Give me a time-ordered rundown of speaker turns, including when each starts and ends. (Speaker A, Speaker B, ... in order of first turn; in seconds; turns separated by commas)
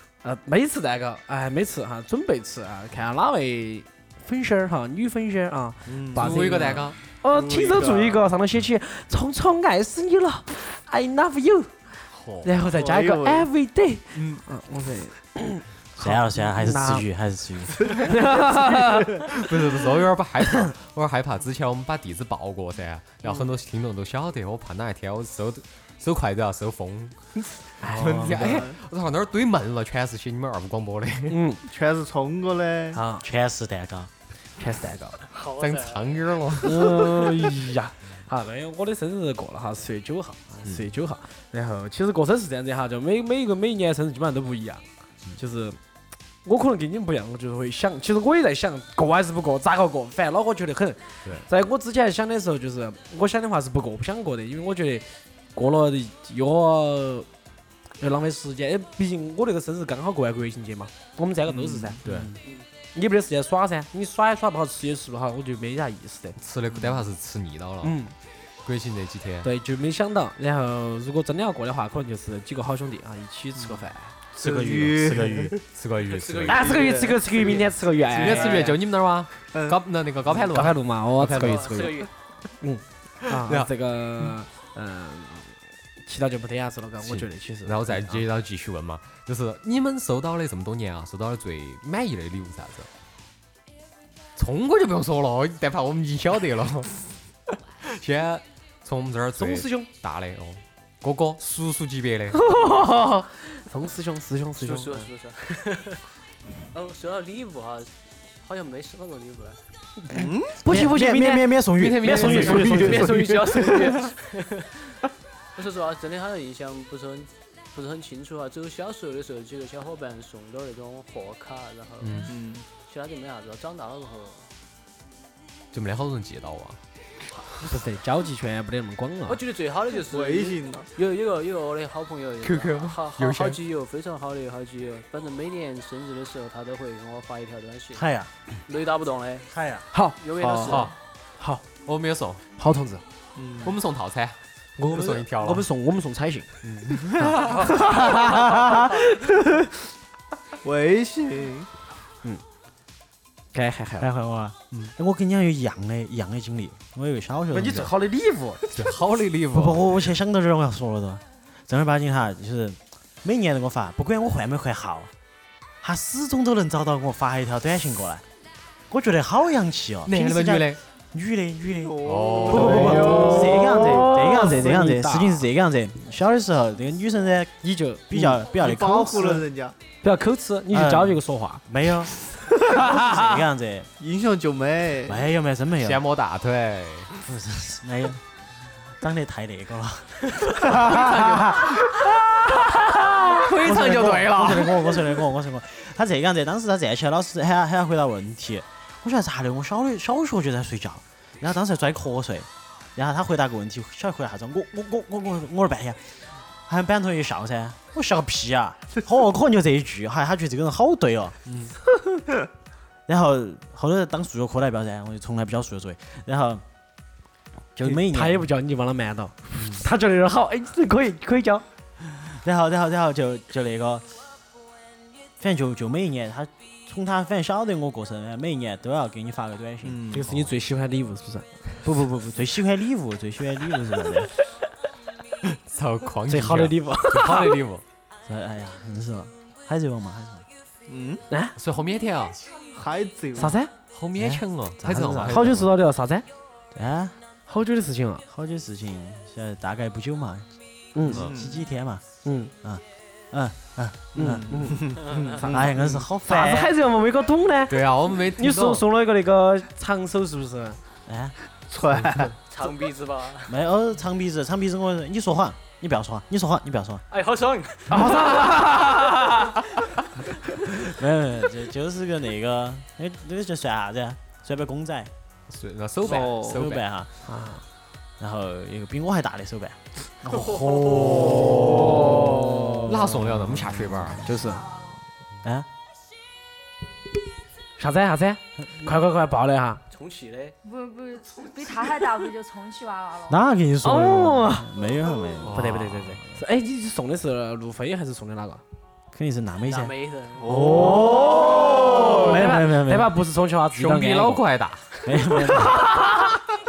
Speaker A: 0.2-17.1, Speaker B: 5.9-8.3, Speaker C: 6.2-7.0, Speaker C: 12.1-12.5, Speaker B: 12.6-13.5, Speaker C: 14.2-14.4, Speaker D: 16.0-18.1, Speaker A: 17.9-19.2, Speaker C: 19.2-27.1, Speaker A: 27.8-28.7, Speaker C: 27.9-31.4, Speaker B: 28.4-28.7, Speaker A: 31.3-31.6, Speaker B: 31.7-33.0, Speaker A: 32.9-33.2, Speaker D: 33.2-34.1, Speaker A: 34.6-35.2, Speaker E: 35.3-36.4, Speaker C: 35.6-37.0, Speaker A: 36.6-44.9, Speaker A: 45.4-45.8, Speaker A: 46.4-57.3, Speaker A: 58.0-62.0, Speaker B: 61.7-62.3, Speaker C: 62.0-62.3, Speaker A: 63.0-66.4, Speaker C: 66.4-68.0, Speaker B: 66.7-67.0, Speaker A: 67.8-68.1, Speaker C: 68.7-69.5, Speaker A: 69.4-74.2, Speaker B: 73.6-75.6, Speaker D: 74.5-75.5, Speaker C: 75.6-76.8, Speaker E: 76.0-77.2, Speaker A: 76.5-78.7, Speaker B: 76.8-77.6, Speaker C: 78.2-81.9, Speaker B: 78.2-78.8, Speaker B: 79.5-79.8, Speaker A: 80.5-82.0, Speaker E: 81.4-82.1, Speaker A: 82.6-88.2, Speaker C: 83.4-83.7, Speaker C: 87.0-92.9, Speaker C: 94.4-97.1, Speaker C: 97.8-102.5, Speaker A: 99.4-99.9, Speaker A: 102.3-105.1, Speaker E: 104.6-106.0, Speaker E: 106.7-109.6, Speaker A: 110.1-113.1, Speaker B: 110.1-110.6, Speaker D: 110.6-113.2, Speaker C: 111.8-113.3, Speaker E: 112.8-115.0, Speaker E: 115.5-124.5, Speaker C: 122.0-122.3, Speaker B: 122.3-122.7, Speaker C: 125.7-126.8, Speaker A: 127.6-129.4, Speaker E: 129.3-138.1, Speaker B: 130.0-130.9, Speaker C: 132.4-133.6, Speaker D: 137.9-138.3, Speaker E: 138.7-139.5, Speaker D: 139.5-139.9, Speaker E: 140.2-140.9, Speaker B: 140.4-140.8, Speaker C: 140.7-140.9, Speaker A: 141.4-141.6, Speaker C: 141.8-142.4, Speaker A: 142.6-143.0, Speaker B: 143.4-143.8, Speaker C: 143.6-145.7, Speaker A: 144.8-146.5, Speaker C: 146.6-147.9, Speaker A: 147.2-149.5, Speaker B: 150.6-151.7, Speaker A: 153.5-154.1, Speaker D: 154.0-157.9, Speaker A: 157.5-158.6, Speaker C: 158.7-159.9, Speaker D: 159.5-165.1, Speaker D: 165.8-168.2, Speaker D: 168.9-177.6, Speaker C: 170.1-170.8, Speaker B: 171.8-174.0, Speaker C: 172.0-173.2, Speaker A: 172.5-175.5, Speaker A: 177.6-178.2, Speaker D: 178.1-179.4, Speaker B: 178.5-179.8, Speaker A: 180.0-181.6, Speaker D: 180.7-182.1, Speaker A: 182.2-183.2, Speaker D: 182.7-183.9, Speaker B: 184.0-185.2, Speaker D: 185.1-186.1, Speaker C: 185.8-187.1, Speaker D: 187.2-188.2, Speaker D: 188.8-191.7, Speaker B: 190.9-191.5, Speaker C: 190.9-195.1, Speaker D: 193.6-211.4, Speaker D: 213.1-216.6, Speaker D: 217.8-218.5, Speaker A: 217.8-221.6, Speaker D: 222.0-224.1, Speaker D: 225.4-230.0, Speaker B: 229.8-230.3, Speaker A: 230.1-231.6, Speaker D: 231.8-234.3, Speaker C: 235.7-237.8, Speaker A: 236.3-237.6, Speaker D: 238.3-240.5, Speaker B: 240.9-241.2, Speaker A: 241.3-241.6, Speaker C: 241.6-242.4, Speaker B: 242.7-243.6, Speaker A: 243.4-243.7, Speaker C: 243.8-245.7, Speaker D: 244.2-245.4, Speaker A: 245.2-246.2, Speaker D: 246.7-247.2, Speaker A: 247.5-248.2, Speaker D: 248.3-250.5, Speaker A: 250.9-251.2, Speaker B: 251.2-251.6, Speaker D: 251.2-252.1, Speaker A: 252.2-252.5, Speaker D: 252.6-254.8, Speaker A: 254.2-260.8, Speaker B: 254.2-256.0, Speaker D: 255.4-256.8, Speaker C: 257.7-258.8, Speaker D: 261.1-261.4, Speaker B: 261.7-262.4, Speaker E: 262.5-263.6, Speaker D: 263.5-267.0, Speaker E: 267.1-268.3, Speaker A: 267.9-269.5, Speaker D: 270.7-275.1, Speaker C: 275.5-276.8, Speaker B: 276.0-276.6, Speaker D: 276.1-277.1, Speaker A: 277.2-277.6, Speaker D: 278.2-282.0, Speaker E: 280.3-281.0, Speaker C: 281.1-282.2, Speaker A: 281.5-282.9, Speaker C: 282.9-284.3, Speaker A: 284.1-284.7, Speaker A: 287.8-289.8, Speaker E: 289.9-290.6, Speaker F: 290.6-293.4, Speaker D: 293.3-295.6, Speaker A: 293.8-294.7, Speaker C: 295.4-296.2, Speaker A: 295.5-298.6, Speaker D: 299.1-299.9, Speaker E: 299.7-300.7, Speaker B: 300.4-302.1, Speaker D: 300.8-303.1, Speaker A: 300.8-304.4, Speaker C: 303.7-305.2, Speaker D: 305.1-305.8